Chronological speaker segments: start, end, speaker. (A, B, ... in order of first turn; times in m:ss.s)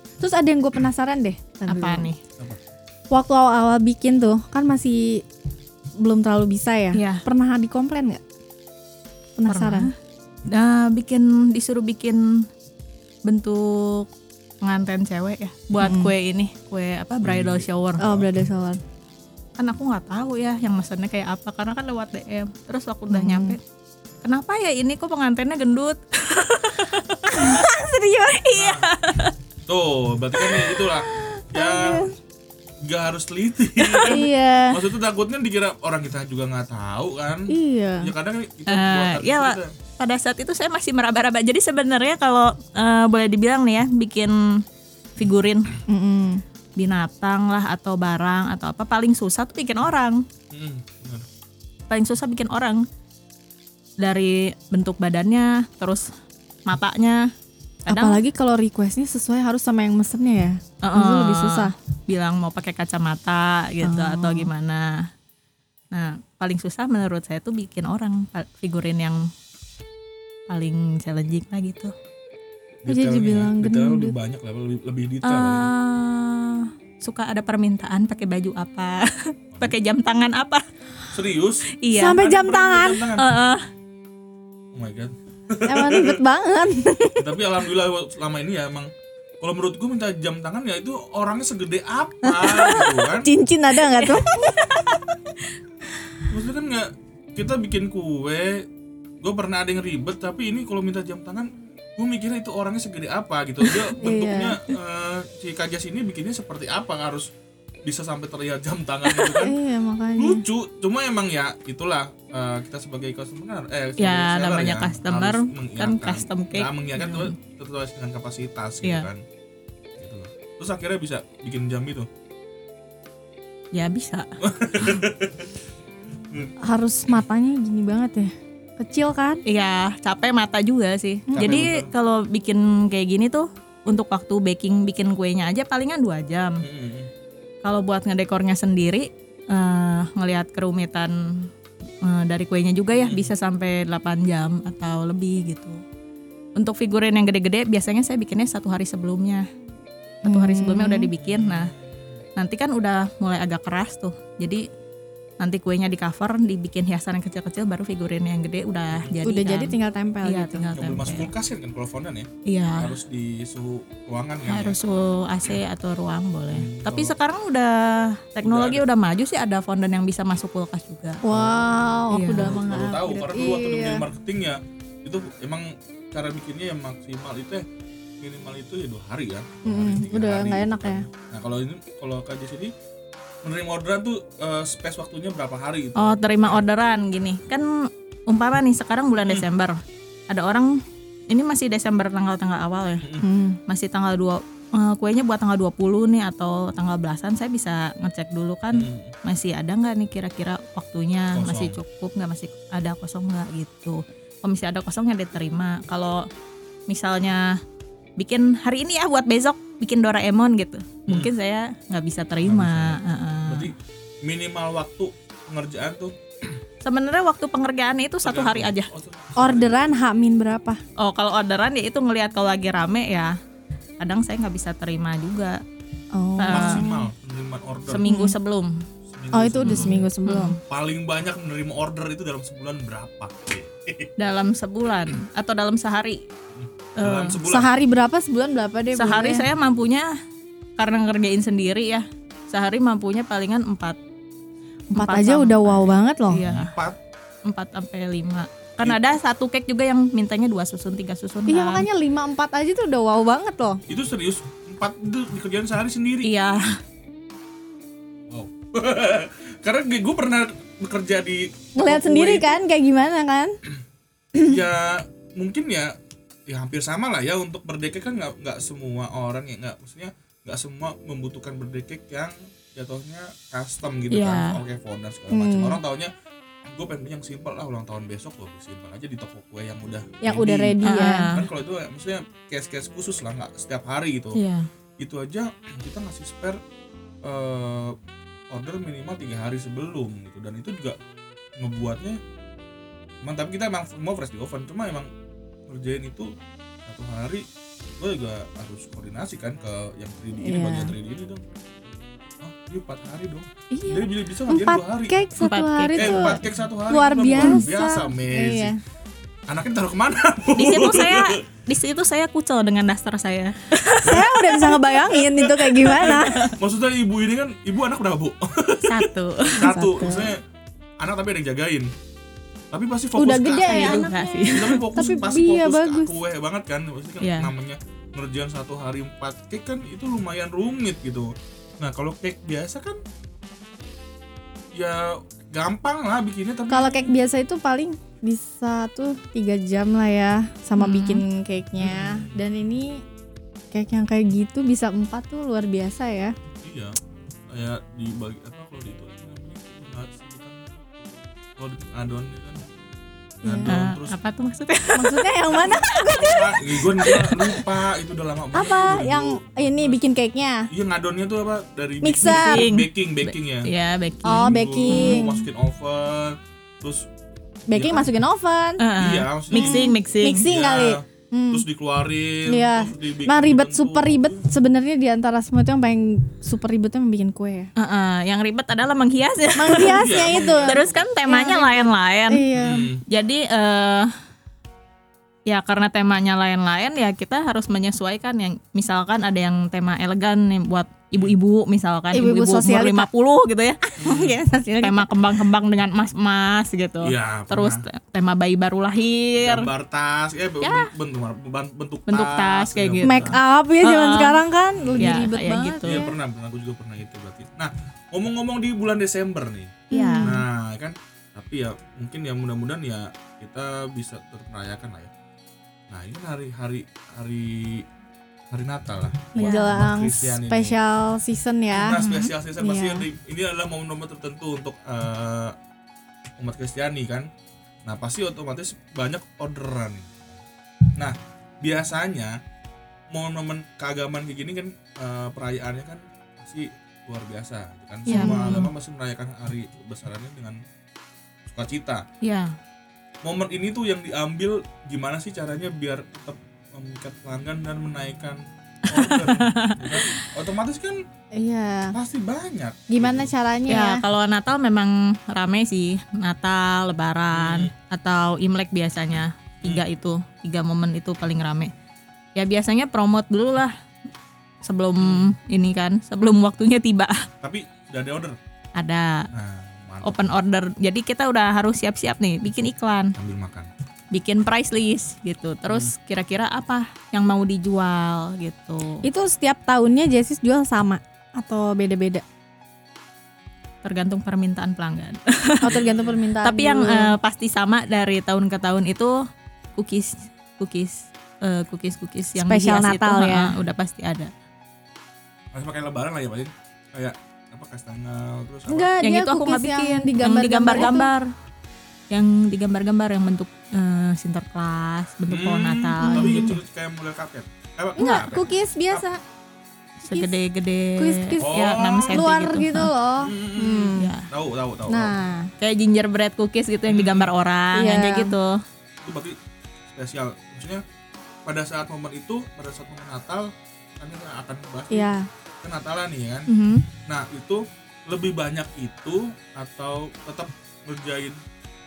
0:00.2-0:02.1 A
0:01.7-0:02.2 B
0:03.1-0:05.2 A
0:06.0-0:08.2 A
0:06.9-0:07.2 B
0:09.4-0:09.9 A
0:09.5-0:09.9 B
0:10.5-0:12.5 B
0:13.3-0:14.1 B
0:14.6-0:18.0 B
0:15.8-0:16.1 A
0:17.2-0:18.3 C
0:18.0-0:18.8 A
0:19.6-0:23.6 B
0:23.1-0:23.6 A
0:24.2-0:27.7 B
0:27.3-0:28.7 A
0:28.2-0:29.3 B
0:28.5-0:28.9 C
0:29.7-0:32.1 C
0:31.2-0:32.1 A
0:32.8-0:39.8 C
0:34.0-0:34.8 A
0:37.5-0:38.1 A
0:38.7-0:44.6 B
0:45.2-0:45.8 B
0:45.9-0:46.4 A
0:46.8-0:50.2 B
0:50.5-0:51.3 C
0:51.9-0:52.8 B
0:54.0-0:56.1 B
0:56.7-0:57.3 B
0:57.9-0:58.2 B
0:57.9-1:01.7 A
1:00.8-1:05.1 B
1:03.8-1:04.5 A
1:05.9-1:09.3 B
1:10.5-1:11.9 B
1:12.8-1:15.7 C
1:12.9-1:14.1 A
1:15.2-1:20.6 B
1:21.1-1:23.2 C
1:21.8-1:22.2 B
1:21.9-1:23.1 A
1:23.2-1:23.6 B
1:24.7-1:26.2 C
1:25.6-1:27.2 A
1:27.2-1:33.3 C
1:32.3-1:34.8 A
1:33.8-1:35.0 B
1:36.3-1:38.7 C
1:39.2-1:47.3 C
1:44.0-1:44.6 A
1:47.8-1:49.6 C
1:49.3-1:50.4 A
1:50.2-1:59.2 C
1:54.0-1:57.4 B
1:58.8-1:59.1 B
2:00.0-2:02.1 C
2:03.7-2:04.3 B
2:04.4-2:05.5 C
2:06.6-2:09.4 A
2:09.5-2:16.6 B
2:11.3-2:11.9 C
2:16.6-2:17.1 C
2:17.6-2:21.5 B
2:22.0-2:25.8 B
2:23.0-2:23.3 C
2:26.6-2:29.5 B
2:30.2-2:31.7 B
2:30.2-2:31.1 A
2:31.2-2:32.2 C
2:32.4-2:34.7 B
2:35.4-2:41.3 B
2:39.2-2:40.7 A
2:40.7-2:44.8 C
2:42.5-2:42.9 B
2:44.4-2:51.2 B
2:46.5-2:47.2 C
2:48.4-2:48.8 C
2:51.2-2:54.0 A
2:51.3-2:51.7 C
2:52.1-2:52.6 B
2:52.4-2:57.6 C
2:58.2-3:02.7 C
2:59.6-3:01.1 A
3:03.4-3:06.6 C
3:06.0-3:13.1 B
3:13.0-3:13.3 C
3:13.2-3:13.6 A
3:13.7-3:26.3 B
3:18.7-3:19.1 C
3:21.3-3:21.8 C
3:26.9-3:27.6 B
3:28.2-3:33.7 B
3:32.4-3:36.6 C
3:36.8-3:38.9 B
3:38.2-3:40.0 C
3:39.4-3:40.8 A
3:41.0-3:43.4 B
3:44.0-3:45.6 B
3:46.1-3:47.1 A
3:46.4-3:46.8 B
3:46.5-3:48.0 C
3:47.9-3:48.8 B
3:48.0-3:48.4 A
3:49.1-3:50.0 C
3:49.3-3:50.6 A
3:49.6-3:50.6 B
3:50.6-3:54.1 C
3:54.2-3:56.2 B
3:56.5-3:57.7 C
3:57.0-3:57.4 B
3:57.5-3:59.5 A
3:58.9-4:00.1 B
4:00.8-4:04.0 B
4:04.9-4:06.7 B
4:05.0-4:06.4 A
4:06.4-4:07.0 C
4:07.5-4:11.9 B
4:11.5-4:13.8 A
4:13.9-4:16.4 C
4:16.2-4:16.8 B
4:18.3-4:22.6 C
4:21.8-4:23.6 A
4:24.4-4:26.0 C
4:26.5-4:36.1 C
4:34.1-4:34.6 B
4:35.3-4:35.8 A
4:36.6-4:44.4 C
4:40.2-4:41.3 A
4:40.8-4:41.4 B
4:44.4-4:44.7 B
4:45.0-4:46.6 C
4:47.2-4:48.0 C
4:48.5-4:51.0 C
4:51.6-4:52.2 C
4:53.2-4:55.1 C
4:55.7-4:56.3 C
4:56.8-4:57.5 C
4:58.0-5:01.4 C
5:00.4-5:00.9 A
5:02.4-5:05.2 C
5:03.7-5:08.8 A
5:05.4-5:06.4 B
5:06.0-5:08.7 C
5:09.5-5:11.4 C
5:10.6-5:14.9 B
5:14.0-5:16.5 A
5:15.2-5:20.4 C
5:15.8-5:16.5 B
5:18.8-5:19.9 B
5:19.6-5:20.3 A
5:21.0-5:21.9 C
5:22.7-5:33.0 C
5:23.2-5:26.2 A
5:23.7-5:24.8 B
5:27.2-5:27.5 B
5:34.8-5:37.1 C
5:36.7-5:43.0 A
5:40.8-5:41.2 B
5:41.8-5:42.4 C
5:43.7-5:46.4 A
5:46.6-5:47.0 C
5:47.5-5:50.9 C
5:51.6-5:52.6 C
5:53.4-5:53.7 A
5:53.4-5:54.2 C
5:53.6-5:57.6 B
5:55.0-5:57.2 A
5:55.5-6:00.0 C
5:58.5-6:00.7 A
6:00.7-6:03.7 C
6:02.0-6:02.7 A
6:02.2-6:05.2 B
6:04.2-6:05.5 A
6:04.3-6:07.1 C
6:07.7-6:08.8 A
6:07.7-6:08.2 C
6:08.8-6:10.4 B
6:09.0-6:09.8 C
6:09.5-6:11.6 A
6:10.4-6:14.4 C
6:12.5-6:17.7 A
6:17.8-6:20.1 B
6:19.6-6:22.9 A
6:19.7-6:21.0 C
6:20.6-6:22.5 B
6:22.5-6:23.0 C
6:23.1-6:24.1 B
6:25.5-6:33.9 B
6:32.1-6:33.1 A
6:34.0-6:35.1 A
6:34.0-6:34.4 C
6:34.8-6:39.7 B
6:37.0-6:37.8 C
6:39.4-6:43.4 C
6:40.6-6:40.9 B
6:42.1-6:44.4 B
6:43.0-6:46.1 A
6:44.8-6:45.2 C
6:45.0-6:46.0 B
6:45.8-6:55.1 C
6:49.9-6:50.3 B
6:49.9-6:50.4 A
6:55.9-6:57.9 C
6:58.5-7:00.8 C
6:59.4-7:02.0 A
6:59.4-6:59.8 B
7:01.7-7:05.6 C
7:02.0-7:02.3 B
7:02.6-7:03.1 A
7:06.4-7:07.3 C
7:07.8-7:10.4 C
7:11.0-7:12.4 C
7:13.1-7:20.6 C
7:18.1-7:18.7 A
7:18.1-7:18.7 B
7:21.5-7:22.1 C
7:22.2-7:22.6 B
7:23.2-7:31.0 C
7:28.9-7:30.1 B
7:31.3-7:32.0 A
7:31.9-7:33.3 C
7:32.9-7:34.0 A
7:33.7-7:41.7 B
7:37.3-7:37.7 C
7:42.4-7:43.7 B
7:44.6-7:47.3 B
7:45.0-7:45.4 C
7:47.4-7:48.4 C
7:48.8-7:49.3 B
7:49.3-7:50.4 C
7:50.0-7:53.2 B
7:53.2-7:53.7 C
7:54.1-7:59.0 B
7:59.0-8:02.2 A
8:03.8-8:05.7 B
8:05.6-8:07.1 A
8:05.7-8:06.2 C
8:06.4-8:09.2 B
8:09.8-8:14.3 B
8:12.4-8:13.6 A
8:15.5-8:18.9 C
8:18.7-8:21.1 A
8:19.0-8:21.3 B
8:22.1-8:26.5 B
8:25.3-8:29.0 C
8:26.0-8:26.6 A
8:28.0-8:29.2 A
8:30.0-8:30.3 A
8:30.0-8:32.9 B
8:31.0-8:34.1 A
8:31.4-8:32.3 C
8:33.2-8:35.2 C
8:34.0-8:34.3 B
8:34.9-8:35.5 A
8:35.6-8:38.6 B
8:36.9-8:37.3 C
8:37.7-8:38.4 A
8:39.0-8:39.4 C
8:39.9-8:40.8 C
8:41.4-8:46.5 C
8:44.9-8:45.3 A
8:46.5-8:46.9 B
8:47.1-8:51.4 C